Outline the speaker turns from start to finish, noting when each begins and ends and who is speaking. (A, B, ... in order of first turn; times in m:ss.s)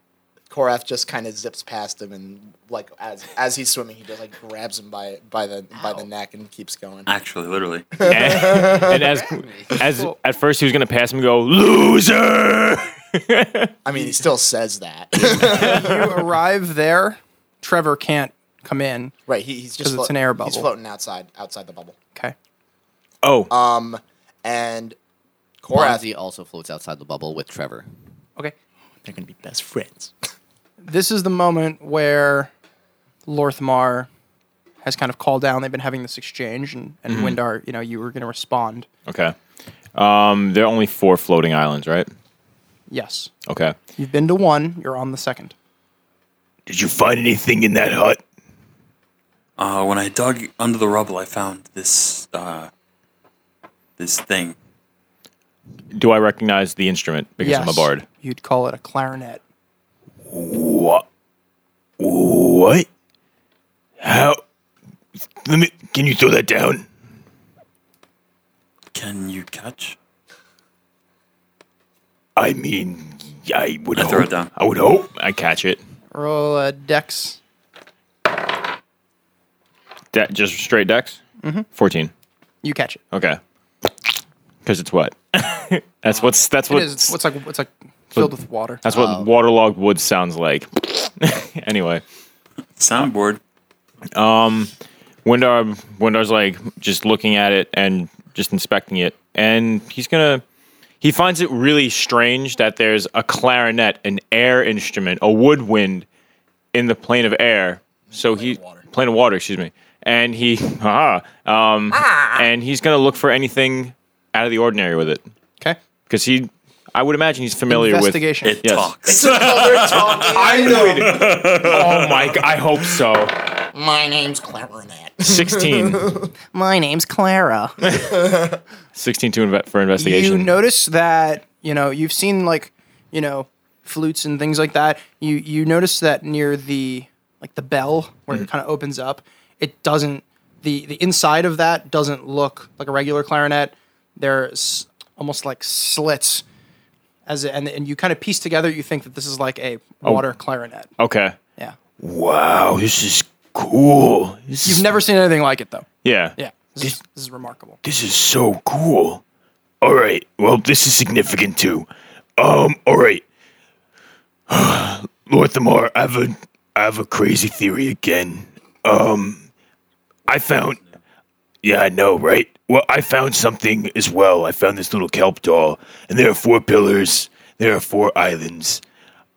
0:00.5-0:07.1 A
0:07.1-0:07.9 B
0:08.0-0:09.1 A
0:08.0-0:12.4 C
0:09.0-0:09.8 D
0:09.9-0:10.2 E
0:12.2-0:12.7 F
0:13.1-0:13.7 C
0:13.8-0:16.1 A
0:15.4-0:19.1 E
0:19.3-0:22.0 A
0:19.8-0:20.7 E
0:23.2-0:23.5 C
0:23.5-0:25.0 A
0:25.6-0:26.1 A
0:25.7-0:27.9 D
0:29.0-0:30.1 A
0:30.8-0:32.5 E
0:33.3-0:34.1 E
0:34.8-0:38.9 E
0:37.1-0:37.4 C
0:39.1-0:39.4 C
0:40.0-0:42.1 C
0:42.9-0:43.3 E
0:43.5-0:43.8 C
0:44.0-0:45.6 E
0:46.7-0:48.2 F
0:49.6-0:52.7 B
0:54.0-0:54.6 B
0:55.9-0:58.0 C
0:57.4-0:59.4 E
1:00.2-1:01.0 F
1:02.0-1:02.9 F
1:04.0-1:04.4 F
1:05.4-1:06.9 F
1:08.9-1:10.0 B
1:12.4-1:15.1 F
1:14.0-1:14.5 B
1:15.1-1:15.8 C
1:16.1-1:17.4 E
1:20.1-1:21.2 C
1:21.4-1:21.7 E
1:21.7-1:22.1 C
1:22.6-1:23.0 E
1:23.1-1:23.4 C
1:24.6-1:27.2 C
1:26.7-1:28.8 E
1:28.8-1:32.0 C
1:28.9-1:29.3 D
1:32.8-1:33.4 B
1:34.2-1:34.7 C
1:35.2-1:40.4 C
1:41.0-1:46.1 C
1:46.7-1:55.2 C
1:48.1-1:48.9 A
1:51.9-1:52.4 A
1:56.1-1:59.0 C
1:57.7-1:58.6 E
1:58.4-2:02.4 B
1:59.1-2:01.2 A
2:00.2-2:03.5 C
2:03.6-2:06.3 A
2:05.2-2:06.2 C
2:06.5-2:07.8 E
2:07.8-2:08.6 A
2:07.9-2:08.2 C
2:09.0-2:10.5 C
2:10.0-2:26.4 E
2:27.3-2:30.9 E
2:31.0-2:31.4 C
2:32.0-2:34.8 F
2:34.6-2:37.8 E
2:36.0-2:36.4 C
2:37.8-2:39.2 F
2:39.8-2:43.2 F
2:44.5-2:49.5 F
2:50.3-2:50.9 F
2:51.6-2:58.8 F